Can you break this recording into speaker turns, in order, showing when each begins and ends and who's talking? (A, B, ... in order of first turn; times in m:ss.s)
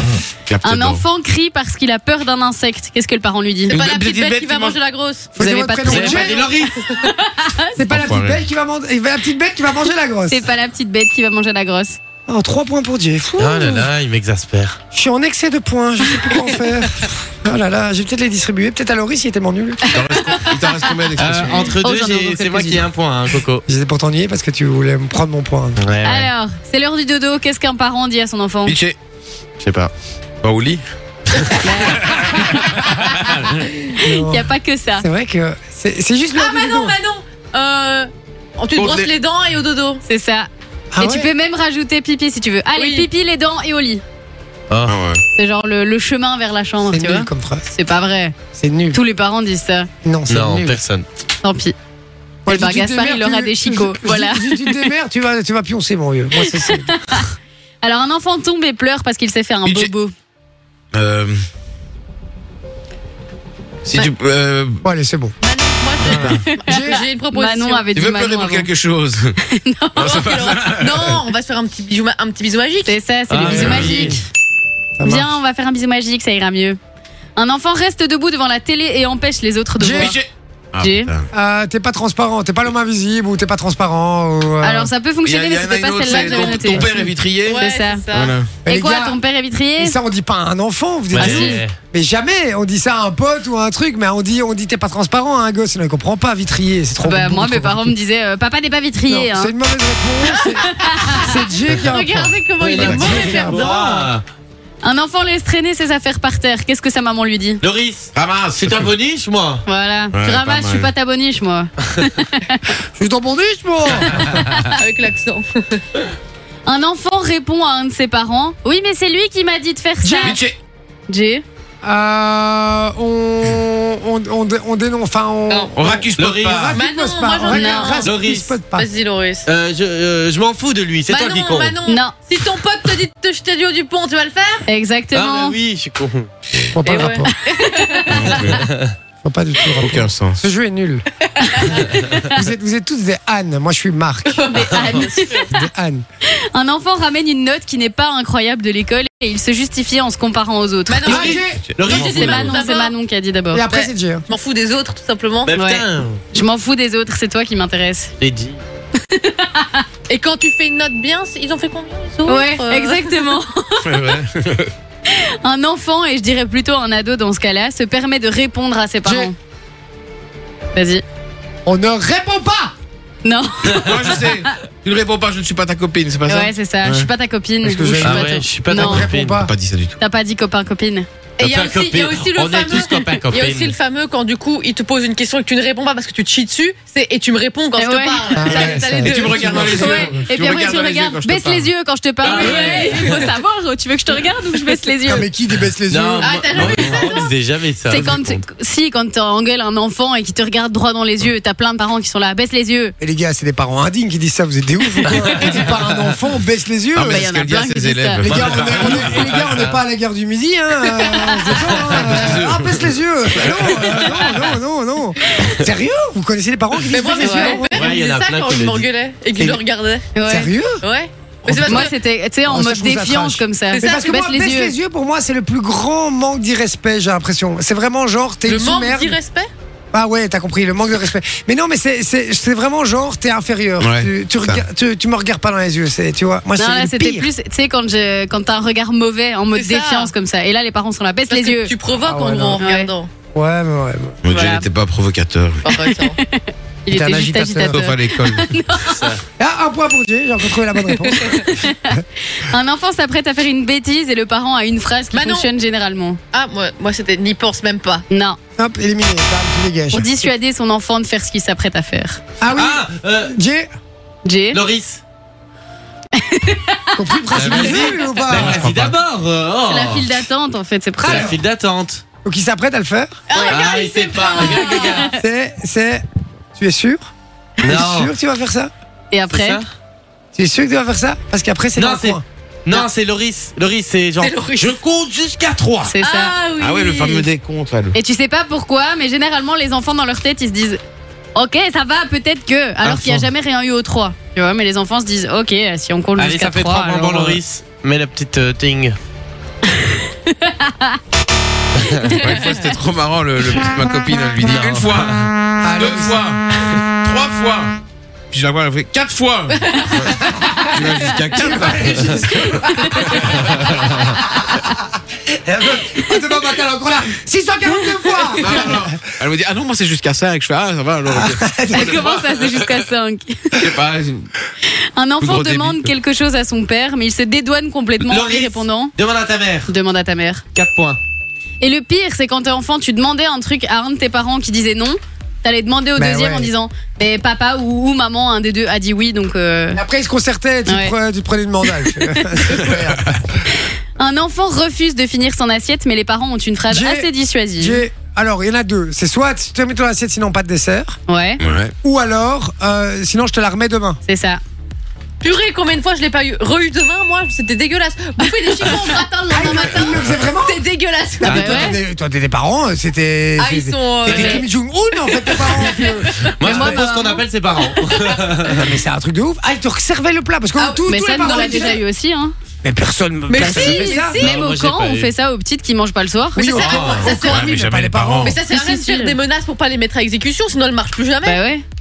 0:00.3-0:01.0 A
0:00.6-0:03.8 B
0:03.7-0:04.8 A
0:03.7-0:05.4 C
0:05.4-0:06.5 D
0:05.4-0:07.8 B
0:05.8-0:06.8 E
0:07.8-0:10.4 D
0:07.8-0:08.4 A
0:10.3-0:12.0 B
0:12.3-0:13.8 D
0:13.4-0:14.8 E
0:14.9-0:19.8 D
0:16.3-0:16.6 B
0:19.8-0:21.7 A
0:20.2-0:22.8 B
0:21.2-0:23.6 E
0:23.7-0:25.8 D
0:25.8-0:26.3 E
0:26.0-0:28.8 B
0:28.6-0:29.0 A
0:29.6-0:30.8 A
0:31.6-0:32.1 B
0:31.8-0:32.8 A
0:34.0-0:35.0 B
0:34.0-0:34.5 D
0:35.0-0:37.0 D
0:36.4-0:40.0 C
0:38.7-0:39.1 A
0:40.0-0:44.0 B
0:41.0-0:41.3 D
0:42.8-0:43.1 C
0:44.7-0:45.0 E
0:44.9-0:45.2 A
0:45.3-0:48.4 B
0:46.9-0:47.6 D
0:48.5-0:49.0 D
0:48.9-0:49.9 B
0:50.0-0:50.8 D
0:50.3-0:51.0 E
0:51.4-0:51.7 B
0:52.4-0:56.9 D
0:52.5-0:54.9 B
0:56.4-0:57.3 B
0:57.8-1:00.1 B
0:59.6-0:59.9 A
1:00.9-1:01.4 A
1:03.8-1:04.8 A
1:04.8-1:05.3 D
1:05.4-1:07.8 C
1:06.2-1:07.0 D
1:06.2-1:08.7 B
1:07.9-1:09.4 A
1:09.4-1:10.1 B
1:10.0-1:11.2 A
1:10.0-1:13.0 C
1:12.8-1:14.2 B
1:13.3-1:14.2 E
1:13.4-1:14.2 D
1:13.5-1:14.0 A
1:15.0-1:15.3 D
1:15.0-1:16.8 B
1:17.4-1:20.2 B
1:19.8-1:20.1 D
1:20.0-1:21.3 A
1:20.8-1:21.1 B
1:21.3-1:24.9 D
1:24.6-1:27.0 B
1:25.2-1:28.6 A
1:26.0-1:26.8 C
1:27.4-1:28.3 C
1:27.6-1:28.0 B
1:28.6-1:29.2 D
1:28.7-1:30.0 B
1:29.8-1:37.9 D
1:31.1-1:31.7 E
1:31.2-1:31.6 B
1:37.0-1:39.5 B
1:39.1-1:43.7 D
1:40.4-1:44.1 C
1:40.4-1:41.4 B
1:42.6-1:44.2 E
1:42.7-1:43.5 A
1:44.8-1:47.6 B
1:47.6-1:49.6 E
1:48.1-1:48.9 A
1:49.6-1:52.8 B
1:50.1-1:50.9 A
1:52.9-1:54.6 D
1:54.7-1:55.8 C
1:56.6-2:00.4 B
2:00.0-2:00.3 D
2:00.2-2:00.6 A
2:01.1-2:01.4 B
2:01.8-2:08.9 D
2:05.5-2:05.7 C
2:05.7-2:06.8 A
2:06.2-2:06.7 E
2:06.7-2:08.2 C
2:07.4-2:08.1 B
2:08.0-2:08.6 E
2:08.7-2:09.5 C
2:09.4-2:11.8 E
2:11.1-2:14.6 C
2:11.8-2:12.1 B
2:14.7-2:15.6 B
2:15.1-2:16.3 E
2:16.8-2:17.3 D
2:16.8-2:18.5 B
2:16.8-2:18.2 C
2:18.1-2:18.6 A
2:18.4-2:18.9 E
2:19.2-2:21.0 D
2:19.8-2:20.4 A
2:21.4-2:22.3 B
2:21.8-2:24.3 D
2:24.2-2:25.5 C
2:24.4-2:25.5 B
2:24.8-2:25.0 E
2:25.5-2:26.0 D
2:26.2-2:31.4 B
2:30.9-2:32.9 C
2:31.1-2:32.5 E
2:31.1-2:31.8 D
2:31.4-2:32.5 A
2:31.9-2:33.7 B
2:33.5-2:34.2 D
2:33.7-2:35.5 C
2:35.4-2:36.2 E
2:35.5-2:38.1 B
2:38.2-2:38.6 E
2:39.1-2:39.8 B
2:40.1-2:43.3 C
2:42.2-2:44.2 B
2:43.8-2:44.7 A
2:45.0-2:49.3 B
2:49.0-2:49.3 D
2:50.7-2:51.0 B
2:51.6-2:52.7 D
2:53.2-2:54.4 B
2:53.7-2:57.1 A
2:56.3-2:59.1 B
2:57.6-2:59.5 D
2:58.0-2:59.4 E
2:59.4-3:00.0 A
3:00.0-3:01.0 B
3:01.4-3:03.7 E
3:01.4-3:10.1 C
3:07.8-3:08.5 B
3:08.3-3:09.8 D
3:08.9-3:11.7 A
3:09.7-3:15.3 B
3:12.2-3:13.2 E
3:12.4-3:13.2 C
3:15.0-3:16.6 D
3:15.9-3:18.4 E
3:16.2-3:17.3 C
3:16.6-3:16.9 A
3:17.8-3:22.9 B
3:23.0-3:27.2 D
3:25.4-3:26.0 E
3:26.9-3:29.4 A
3:27.0-3:28.3 B
3:28.2-3:29.8 E
3:28.2-3:37.9 D
3:31.0-3:32.3 E
3:31.1-3:31.8 B
3:31.9-3:34.5 A
3:33.8-3:34.3 E
3:35.3-3:35.6 B
3:36.9-3:40.2 C
3:37.5-3:38.9 E
3:39.4-3:39.6 D
3:40.1-3:40.5 B
3:40.2-3:40.8 D
3:40.8-3:41.9 C
3:41.4-3:41.9 D
3:41.6-3:44.8 B
3:42.4-3:49.2 D
3:43.7-3:44.1 C
3:48.5-3:49.5 C
3:49.9-3:57.3 D
3:53.8-3:54.6 A
3:56.6-4:01.7 B
3:59.5-4:00.1 C
4:01.3-4:03.1 C
4:02.0-4:02.6 D
4:02.6-4:02.9 B
4:03.3-4:04.2 D
4:04.2-4:05.6 A
4:04.3-4:04.6 B
4:05.6-4:06.2 C
4:05.7-4:09.0 B
4:06.9-4:07.8 D
4:07.7-4:08.5 A
4:08.9-4:09.2 E
4:09.4-4:11.7 D
4:10.9-4:11.4 C
4:11.4-4:16.2 B
4:15.1-4:15.4 C
4:16.3-4:18.0 C
4:18.1-4:18.4 B
4:18.6-4:20.3 D
4:19.9-4:22.2 B
4:22.4-4:23.7 D
4:22.5-4:23.3 E
4:24.2-4:24.6 B
4:24.5-4:25.0 E
4:26.1-4:27.1 B
4:27.0-4:28.6 D
4:27.3-4:30.1 E
4:27.4-4:29.0 A
4:29.6-4:31.3 B
4:31.0-4:32.0 E
4:31.0-4:31.4 D
4:32.2-4:33.5 D
4:33.3-4:33.6 B
4:33.3-4:35.0 C
4:33.5-4:35.1 E
4:34.4-4:35.1 B
4:35.1-4:36.0 D
4:36.6-4:37.0 D
4:37.6-4:38.1 E
4:37.6-4:38.7 D
4:39.1-4:39.6 B
4:39.3-4:39.7 E
4:40.3-4:42.2 D
4:41.8-4:45.9 E
4:44.2-4:44.8 C
4:45.8-4:46.3 B
4:46.0-4:47.2 C
4:46.6-4:47.9 A
4:47.9-4:50.8 B
4:51.3-4:57.4 B
4:52.8-4:53.3 E
4:56.2-4:59.0 E
4:59.7-5:01.0 B
5:01.8-5:02.0 E
5:02.0-5:07.8 A
5:04.4-5:05.3 E
5:05.6-5:06.2 D
5:08.3-5:14.1 A
5:10.2-5:10.6 D
5:11.4-5:14.5 D
5:12.5-5:13.0 B
5:15.3-5:18.9 D
5:15.8-5:16.2 B
5:18.4-5:22.8 A
5:21.1-5:21.9 D
5:21.7-5:23.5 B
5:23.6-5:24.3 A
5:24.6-5:28.9 B
5:25.2-5:25.9 A
5:28.0-5:29.7 E
5:29.6-5:30.4 B
5:30.5-5:31.0 E
5:31.6-5:39.8 B
5:36.0-5:36.5 D
5:39.7-5:43.2 D
5:40.6-5:40.9 B
5:41.8-5:42.2 B
5:42.5-5:42.8 A
5:43.5-5:47.8 B
5:46.7-5:47.1 D
5:47.6-5:51.0 D
5:51.1-5:51.4 B
5:51.4-5:51.7 A
5:51.8-5:54.0 D
5:54.0-5:54.4 B
5:55.2-6:01.7 C
5:58.7-5:58.9 B
5:59.3-6:00.7 D
6:01.2-6:06.8 D
6:01.2-6:01.8 B
6:03.4-6:06.6 C
6:04.1-6:04.4 B
6:06.4-6:08.7 E
6:06.4-6:07.2 B
6:07.8-6:08.2 C
6:08.6-6:11.8 D
6:10.6-6:11.8 C
6:10.8-6:12.3 B
6:12.6-6:14.3 D
6:13.3-6:14.2 C
6:13.4-6:16.6 B
6:14.2-6:15.1 E
6:16.3-6:18.4 D
6:16.4-6:17.5 C
6:16.6-6:17.1 E
6:17.1-6:18.4 A
6:18.2-6:21.4 C
6:18.4-6:19.2 B
6:21.2-6:21.6 B